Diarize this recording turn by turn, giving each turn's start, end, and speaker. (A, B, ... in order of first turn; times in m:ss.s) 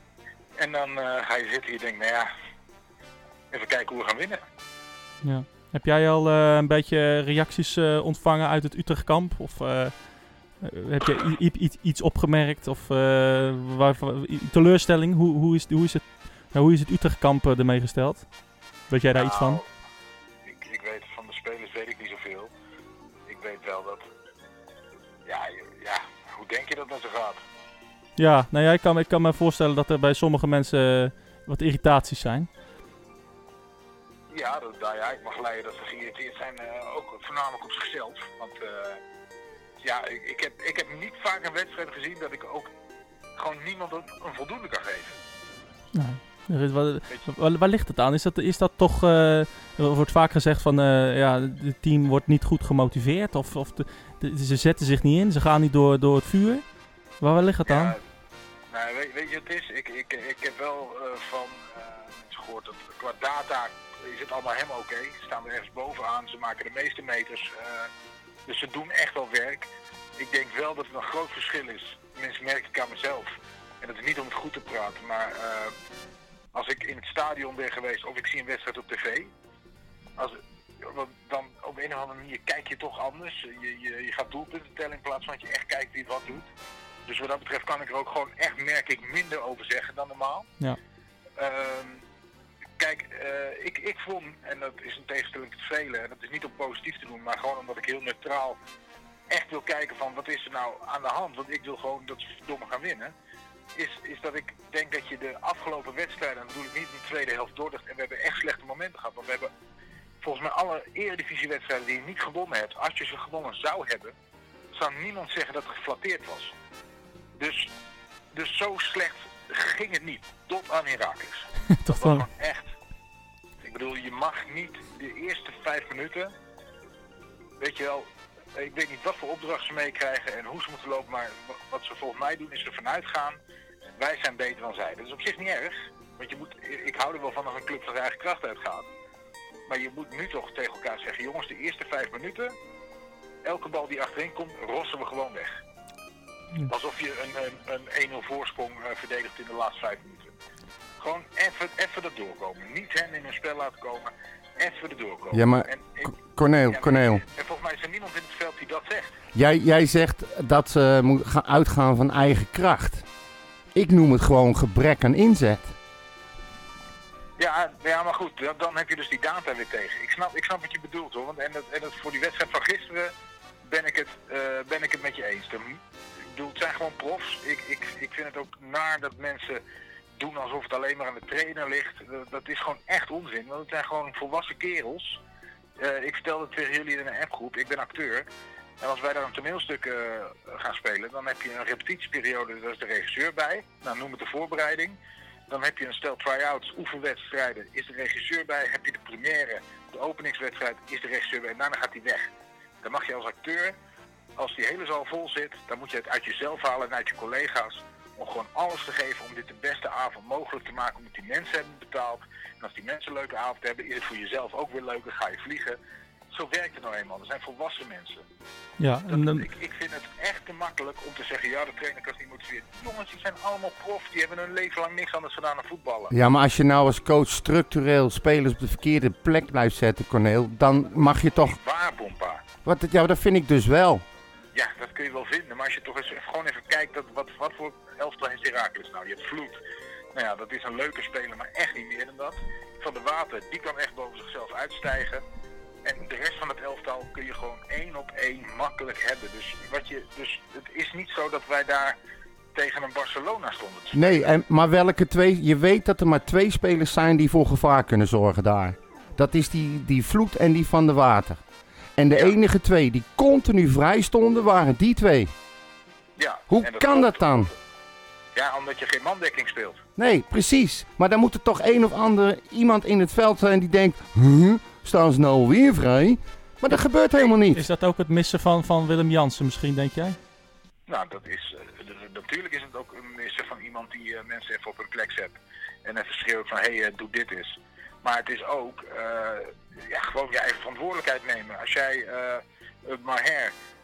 0:00.6-0:02.3 A
0:03.5-0:04.4 A
0:05.2-0:18.3 B
0:18.9-0:19.6 B
0:19.1-0:19.7 A
0:20.4-0:22.5 A
0:23.3-0:24.1 A
0:25.3-0:27.4 A
0:28.2-0:32.5 B
0:34.3-0:39.0 A
0:39.8-0:42.7 A
0:43.4-0:45.2 A
0:45.9-0:56.6 B
0:57.2-0:58.0 B
0:57.7-0:58.0 A
0:58.7-1:07.9 A
1:08.5-1:15.7 A
1:16.5-1:19.3 A
1:20.2-1:26.5 A
1:27.1-1:30.5 A
1:31.4-1:32.0 A
1:32.8-1:38.6 A
1:39.3-1:43.1 A
1:43.8-1:49.5 A
1:50.2-1:54.2 A
1:54.8-1:56.5 A
1:57.4-1:57.7 A
1:58.3-2:02.7 A
2:01.7-2:02.3 B
2:03.6-2:06.3 A
2:07.6-2:13.4 A
2:14.0-2:18.9 A
2:19.7-2:22.6 A
2:23.4-2:25.6 A
2:26.6-2:30.4 A
2:31.0-2:39.1 A
2:35.3-2:37.2 C
2:39.4-2:43.1 C
2:43.8-2:45.8 C
2:47.4-2:53.1 A
2:53.6-2:55.8 A
2:56.3-2:59.6 A
3:00.2-3:05.2 A
3:05.8-3:08.3 A
3:08.8-3:15.0 A
3:15.5-3:23.8 A
3:24.4-3:35.8 A
3:36.3-3:38.2 A
3:38.8-3:39.5 B
3:39.1-3:46.1 A
3:46.1-3:51.6 C
3:51.5-3:52.4 A
3:52.6-3:54.0 C
3:54.5-3:59.6 A
4:00.1-4:05.2 A
4:05.8-4:12.0 A
4:12.5-4:14.3 A
4:13.9-4:21.4 C
4:22.0-4:25.3 C
4:26.2-4:27.6 A
4:26.5-4:27.5 C
4:28.4-4:29.8 A
4:30.0-4:37.7 C
4:37.5-4:40.2 B
4:40.9-4:53.5 A